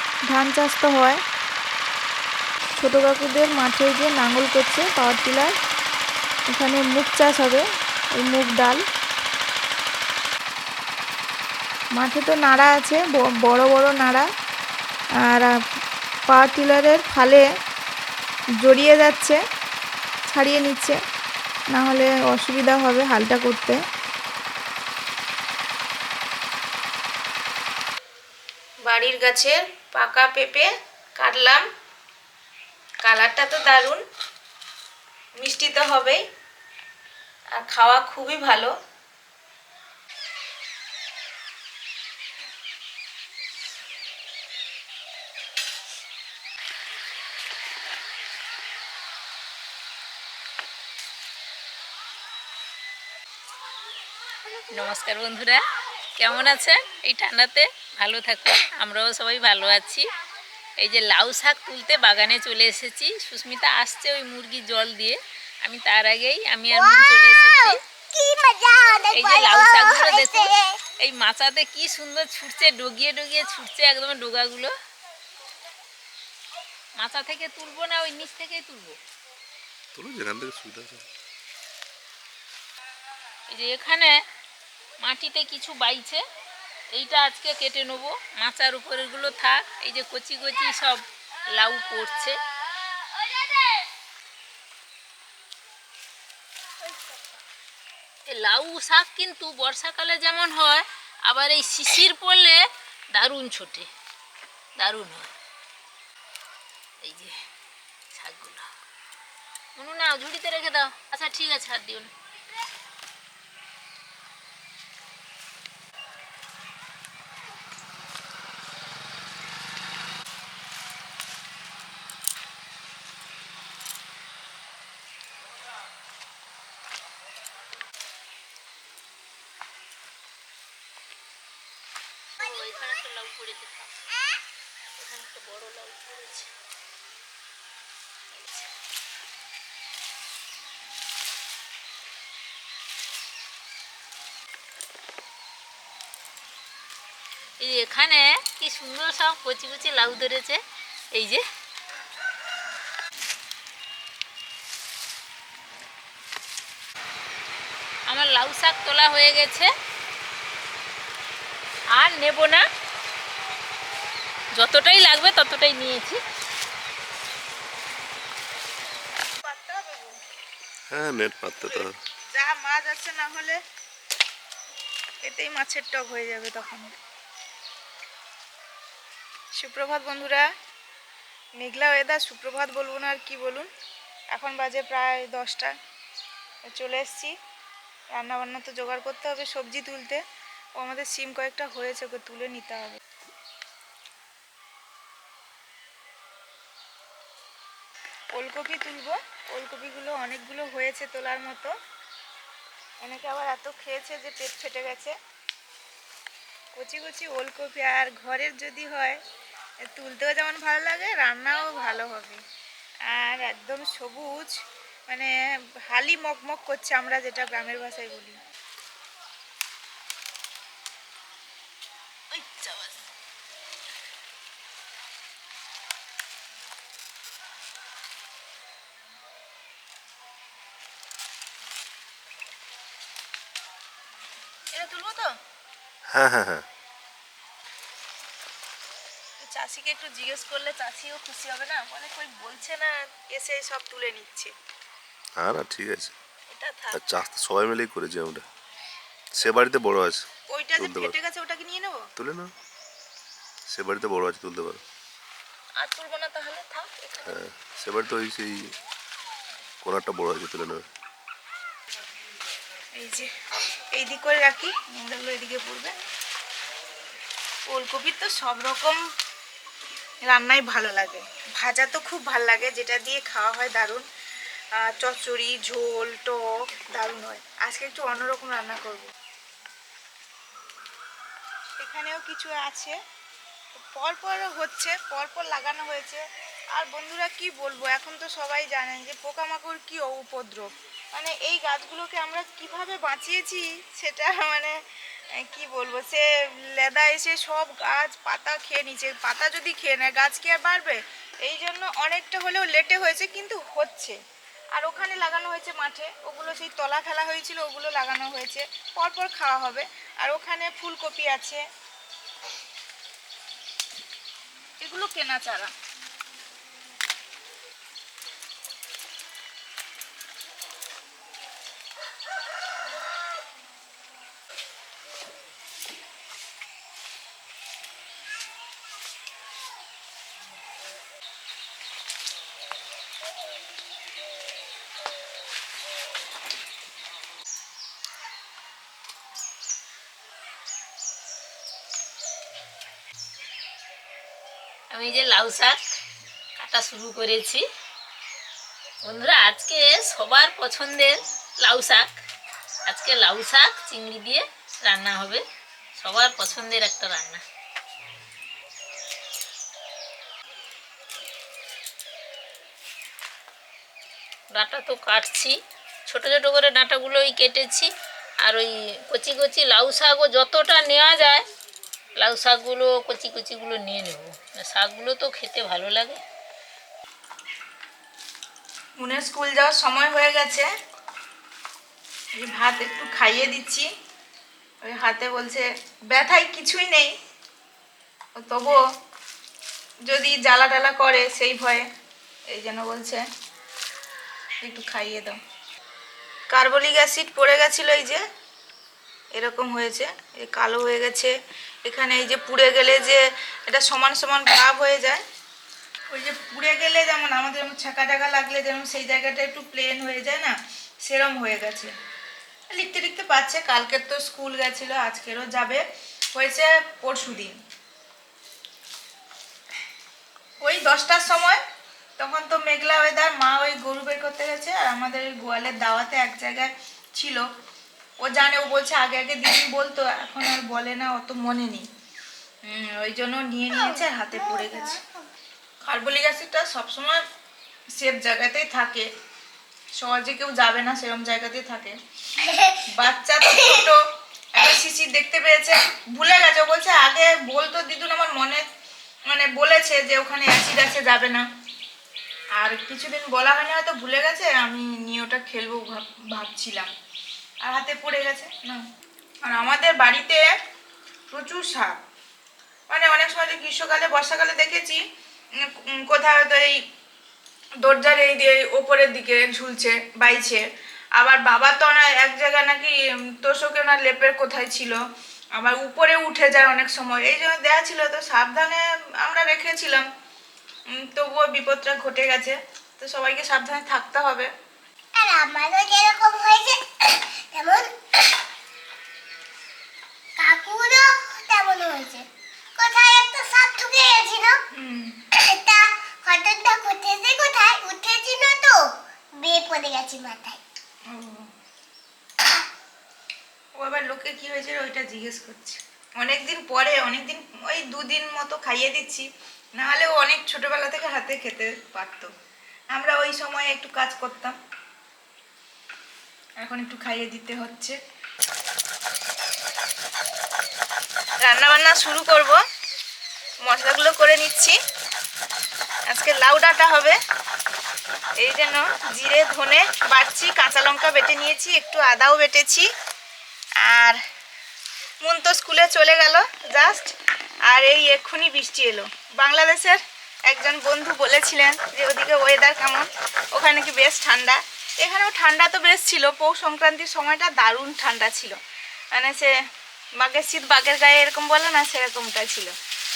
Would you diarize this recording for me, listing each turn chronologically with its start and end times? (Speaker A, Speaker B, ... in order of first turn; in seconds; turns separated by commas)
Speaker A: 0.3-1.2, Speaker A: 2.8-5.5, Speaker A: 6.5-8.8, Speaker A: 11.9-14.3, Speaker A: 15.2-15.6, Speaker A: 16.3-17.5, Speaker A: 18.6-19.4, Speaker A: 20.3-21.0, Speaker A: 21.7-23.8, Speaker A: 28.8-31.7, Speaker A: 33.0-34.0, Speaker A: 35.4-36.2, Speaker A: 37.5-38.7, Speaker B: 54.7-55.6, Speaker B: 56.2-60.0, Speaker B: 60.8-67.8, Speaker C: 66.7-70.8, Speaker B: 69.1-74.7, Speaker B: 77.0-79.0, Speaker D: 79.9-81.0, Speaker B: 83.5-84.2, Speaker B: 85.0-86.2, Speaker B: 86.9-91.0, Speaker B: 91.6-92.4, Speaker B: 98.3-102.6, Speaker B: 103.1-103.9, Speaker B: 104.8-105.3, Speaker B: 107.0-107.3, Speaker B: 108.1-108.7, Speaker B: 109.8-112.1, Speaker B: 132.4-133.9, Speaker B: 135.0-136.5, Speaker B: 138.3-138.6, Speaker B: 147.6-150.6, Speaker B: 151.1-151.4, Speaker B: 158.1-159.7, Speaker B: 161.9-162.6, Speaker B: 164.6-166.2, Speaker A: 169.4-170.2, Speaker D: 170.9-172.0, Speaker A: 171.7-173.6, Speaker A: 175.2-176.9, Speaker A: 179.5-180.5, Speaker A: 181.6-183.7, Speaker A: 184.3-185.8, Speaker A: 186.7-187.4, Speaker A: 188.1-190.2, Speaker A: 190.8-193.0, Speaker A: 198.3-201.7, Speaker A: 203.0-205.2, Speaker A: 206.8-209.2, Speaker A: 209.8-212.4, Speaker A: 213.1-214.6, Speaker A: 215.1-218.4, Speaker A: 222.3-222.9, Speaker A: 234.7-235.4, Speaker D: 236.1-236.7, Speaker A: 239.4-244.5, Speaker D: 245.4-246.2, Speaker A: 246.5-247.0, Speaker D: 246.9-248.4, Speaker D: 249.3-250.2, Speaker A: 250.5-252.1, Speaker D: 250.8-251.1, Speaker D: 252.2-252.5, Speaker D: 253.7-254.8, Speaker A: 255.8-257.3, Speaker D: 257.2-258.7, Speaker D: 259.8-260.8, Speaker A: 263.0-263.3, Speaker A: 263.9-265.9, Speaker A: 267.7-269.0, Speaker A: 270.3-274.1, Speaker A: 274.8-279.1, Speaker A: 281.8-283.0, Speaker A: 283.8-294.8, Speaker A: 295.3-304.2, Speaker A: 304.7-311.6, Speaker A: 314.8-315.7, Speaker B: 344.9-345.8, Speaker B: 346.6-347.6, Speaker B: 349.1-352.1, Speaker B: 352.9-355.4, Speaker B: 356.0-357.4, Speaker B: 364.5-367.9, Speaker B: 368.4-371.4, Speaker B: 372.2-376.2, Speaker A: 379.0-380.7, Speaker A: 382.3-383.9, Speaker A: 384.8-387.1, Speaker A: 388.4-388.8, Speaker A: 390.1-391.9, Speaker A: 392.5-393.2, Speaker A: 394.6-395.4, Speaker A: 396.5-398.2, Speaker A: 399.3-401.3, Speaker A: 401.8-405.2, Speaker A: 406.1-411.9, Speaker A: 412.7-417.6, Speaker A: 420.6-421.6, Speaker A: 422.2-427.5, Speaker A: 428.2-431.9, Speaker A: 432.6-435.0, Speaker C: 433.7-435.2, Speaker A: 435.8-437.2, Speaker A: 437.9-439.1, Speaker A: 440.0-442.0, Speaker C: 442.4-442.8, Speaker A: 443.0-444.0, Speaker C: 443.5-443.9, Speaker A: 444.5-448.6, Speaker A: 449.3-451.5, Speaker A: 452.6-456.9, Speaker A: 457.6-458.8, Speaker A: 459.4-460.6, Speaker A: 461.3-462.0, Speaker A: 462.9-465.0, Speaker A: 465.6-466.8, Speaker A: 467.8-470.6, Speaker A: 471.2-475.0, Speaker A: 475.6-480.1, Speaker A: 480.9-484.5, Speaker C: 485.1-487.9, Speaker C: 490.4-492.2, Speaker C: 492.8-494.6, Speaker A: 494.7-495.2, Speaker C: 495.4-500.6, Speaker A: 501.1-501.5, Speaker A: 503.8-512.3, Speaker A: 512.9-514.6, Speaker A: 516.6-518.0, Speaker A: 521.4-522.6, Speaker A: 523.6-524.8, Speaker A: 526.1-527.2, Speaker A: 528.4-532.9, Speaker A: 533.8-534.2, Speaker A: 535.2-537.1, Speaker A: 537.7-548.6, Speaker A: 549.1-549.5, Speaker A: 550.2-552.8